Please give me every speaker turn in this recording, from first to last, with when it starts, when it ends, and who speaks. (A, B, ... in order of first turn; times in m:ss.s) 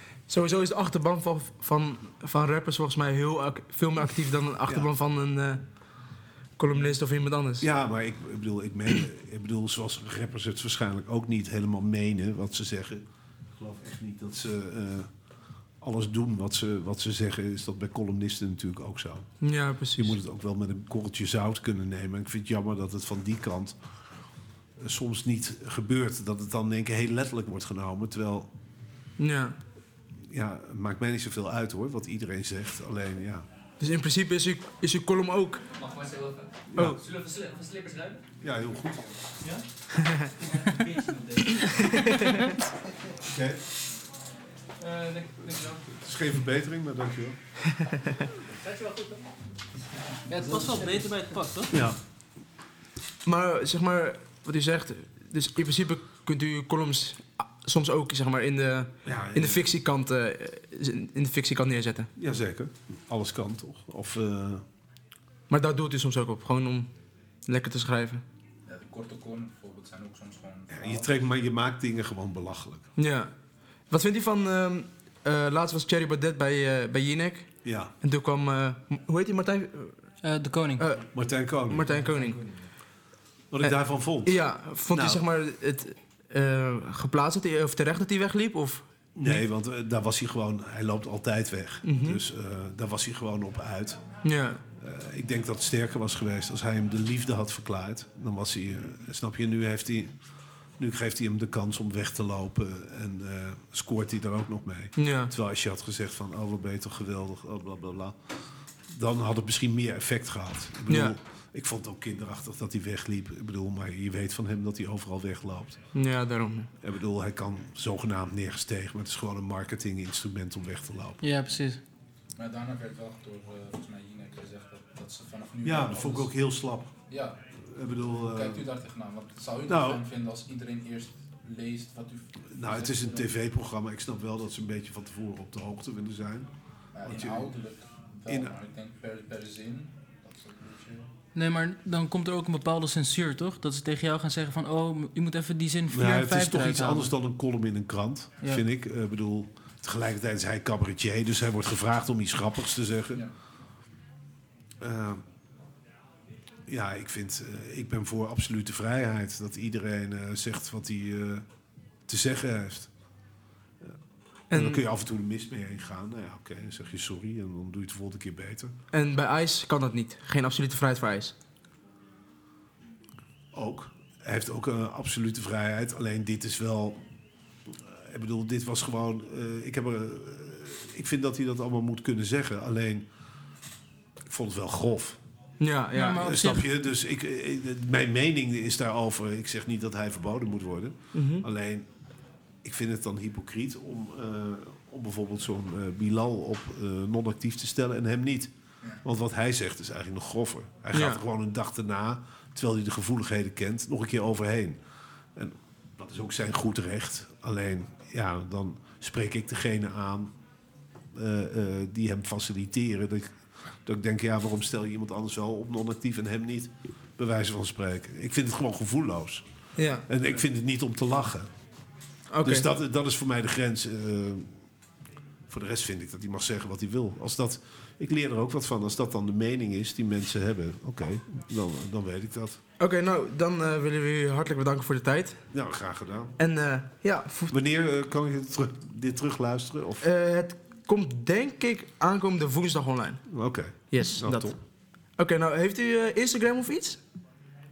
0:00.3-0:05.6 A
0:06.6-0:07.7 A
0:07.6-0:13.0 B
0:13.6-0:15.1 B
0:15.8-0:19.3 B
0:19.4-0:20.2 A
0:20.0-0:23.8 B
0:24.8-0:28.5 B
0:29.2-0:29.6 A
0:30.3-0:33.4 B
0:33.8-0:35.6 A
0:35.9-0:36.5 C
0:36.7-0:37.1 B
0:37.2-0:38.2 C
0:37.5-0:38.0 D
0:38.4-0:39.2 B
0:41.6-0:42.3 A
0:41.8-0:42.4 D
0:43.1-0:43.6 B
0:45.5-0:47.4 B
0:48.8-0:49.2 C
0:50.3-0:51.7 D
0:51.7-0:52.0 B
0:53.2-1:02.1 A
0:59.0-0:59.7 B
1:02.2-1:04.6 B
1:05.5-1:06.9 A
1:07.5-1:08.2 A
1:08.7-1:11.1 E
1:10.7-1:12.8 B
1:13.0-1:13.3 A
1:13.9-1:20.0 A
1:17.6-1:17.9 B
1:20.2-1:20.8 D
1:20.8-1:21.1 A
1:21.1-1:22.0 B
1:21.7-1:22.4 A
1:23.5-1:24.3 B
1:23.6-1:28.8 A
1:24.9-1:25.2 B
1:29.2-1:34.0 B
1:31.8-1:32.2 A
1:34.2-1:34.6 A
1:34.8-1:40.1 B
1:40.8-1:48.2 B
1:45.0-1:45.3 A
1:48.9-1:55.8 B
1:50.9-1:51.2 A
1:56.0-1:56.7 A
1:56.8-2:01.2 B
2:01.2-2:01.8 D
2:02.4-2:06.3 E
2:05.6-2:06.9 B
2:07.1-2:07.4 E
2:07.6-2:08.7 B
2:08.2-2:13.3 E
2:09.7-2:10.0 B
2:12.5-2:16.5 B
2:16.9-2:21.1 E
2:17.0-2:17.5 B
2:18.3-2:18.6 B
2:21.4-2:27.1 D
2:25.9-2:33.2 B
2:34.8-2:35.2 B
2:36.7-2:41.4 B
2:42.1-2:42.9 B
2:44.5-2:48.7 B
2:44.5-2:44.8 A
2:48.9-2:51.3 A
2:53.5-2:57.0 B
2:57.7-3:03.0 B
3:04.3-3:05.2 B
3:05.6-3:06.2 A
3:05.9-3:06.7 D
3:06.2-3:11.8 B
3:11.1-3:11.4 A
3:12.6-3:18.5 B
3:19.0-3:24.8 B
3:20.9-3:21.2 A
3:25.4-3:30.3 B
3:31.2-3:33.3 B
3:33.9-3:39.4 B
3:39.8-3:40.0 A
3:40.1-3:41.5 B
3:42.3-3:42.7 A
3:42.4-3:44.5 B
3:45.5-3:52.6 B
3:52.8-3:55.4 A
3:55.5-3:56.4 B
3:56.4-3:57.6 A
3:57.5-4:00.0 B
4:00.0-4:03.2 A
4:03.3-4:04.6 B
4:03.9-4:04.6 A
4:05.2-4:07.0 A